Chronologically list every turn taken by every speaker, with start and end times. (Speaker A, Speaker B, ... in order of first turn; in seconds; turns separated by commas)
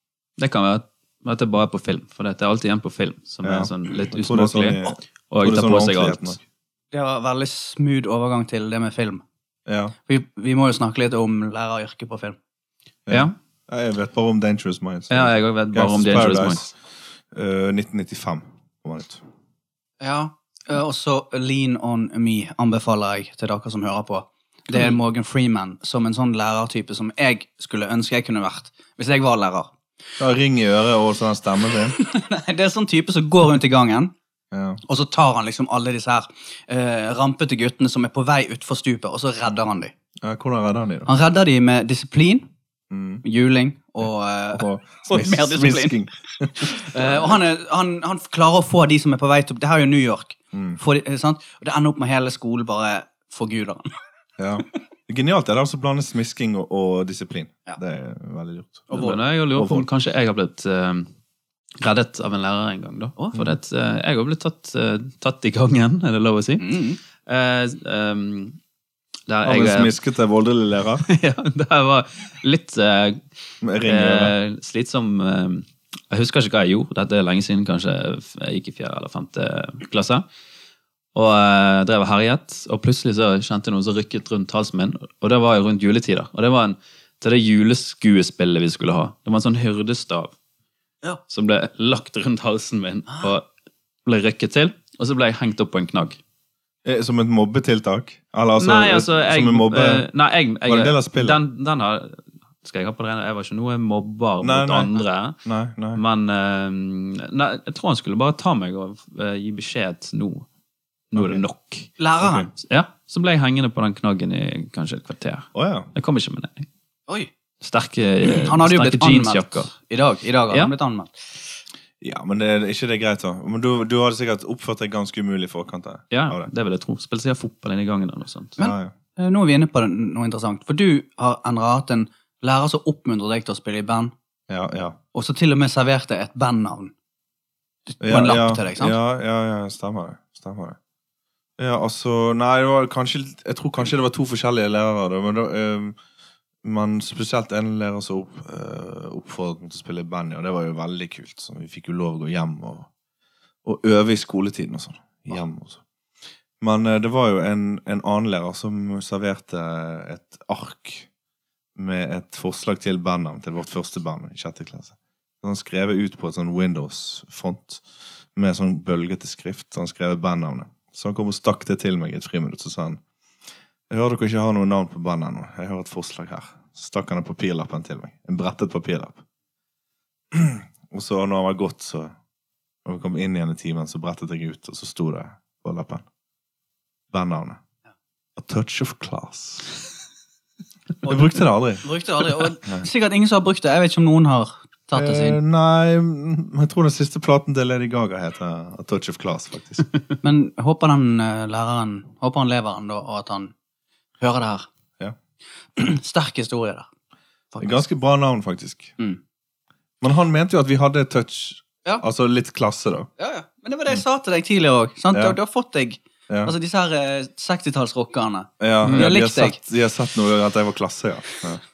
Speaker A: 0.4-6.4, Speaker B: 3.4-6.4, Speaker C: 6.9-9.2, Speaker B: 9.7-9.9, Speaker C: 10.1-12.4, Speaker B: 13.1-16.8, Speaker A: 15.1-16.6, Speaker B: 17.3-19.2, Speaker C: 20.0-29.7, Speaker B: 30.2-32.0, Speaker C: 31.9-34.1, Speaker B: 34.5-34.8, Speaker C: 34.9-39.9, Speaker B: 40.2-41.1, Speaker C: 41.1-42.5, Speaker B: 42.9-43.2, Speaker C: 43.2-46.0, Speaker B: 44.5-47.4, Speaker C: 46.6-53.9, Speaker B: 50.5-50.8, Speaker B: 54.4-59.9, Speaker C: 58.9-59.2, Speaker A: 58.9-61.1, Speaker A: 61.8-68.6, Speaker C: 66.6-67.0, Speaker A: 69.3-69.9, Speaker B: 69.4-71.1, Speaker A: 71.0-73.2, Speaker B: 73.6-74.3, Speaker A: 73.8-80.2, Speaker A: 81.2-90.3, Speaker A: 91.3-93.5, Speaker A: 94.0-96.2, Speaker B: 96.8-100.1, Speaker A: 98.6-105.4, Speaker B: 100.7-101.4, Speaker B: 104.4-106.0, Speaker A: 106.0-110.5, Speaker A: 111.1-111.9, Speaker B: 111.2-111.4, Speaker C: 112.0-112.5, Speaker B: 112.2-112.5, Speaker A: 112.6-116.7, Speaker B: 115.5-115.9, Speaker A: 117.6-119.7, Speaker C: 118.2-121.2, Speaker B: 122.0-126.5, Speaker A: 126.1-128.6, Speaker B: 128.6-128.9, Speaker C: 128.6-134.1, Speaker B: 134.5-135.0, Speaker C: 135.1-136.9, Speaker C: 137.9-139.0, Speaker B: 138.0-140.8, Speaker B: 141.6-146.0, Speaker B: 146.6-152.9, Speaker B: 153.6-155.8, Speaker B: 156.6-161.1, Speaker B: 161.8-167.8, Speaker B: 168.3-173.0, Speaker B: 173.9-179.2, Speaker B: 180.3-182.1, Speaker B: 182.8-186.1, Speaker B: 187.1-187.6, Speaker B: 188.4-189.7, Speaker B: 191.1-191.9, Speaker C: 191.1-195.4, Speaker B: 192.4-192.9, Speaker B: 194.9-199.9, Speaker C: 200.2-203.5, Speaker C: 204.2-204.7, Speaker C: 205.8-206.9, Speaker C: 207.5-207.9, Speaker B: 207.6-208.9, Speaker B: 210.0-213.1, Speaker C: 213.2-219.6, Speaker B: 215.1-215.4, Speaker B: 216.3-216.5, Speaker B: 218.6-221.6, Speaker A: 218.8-219.2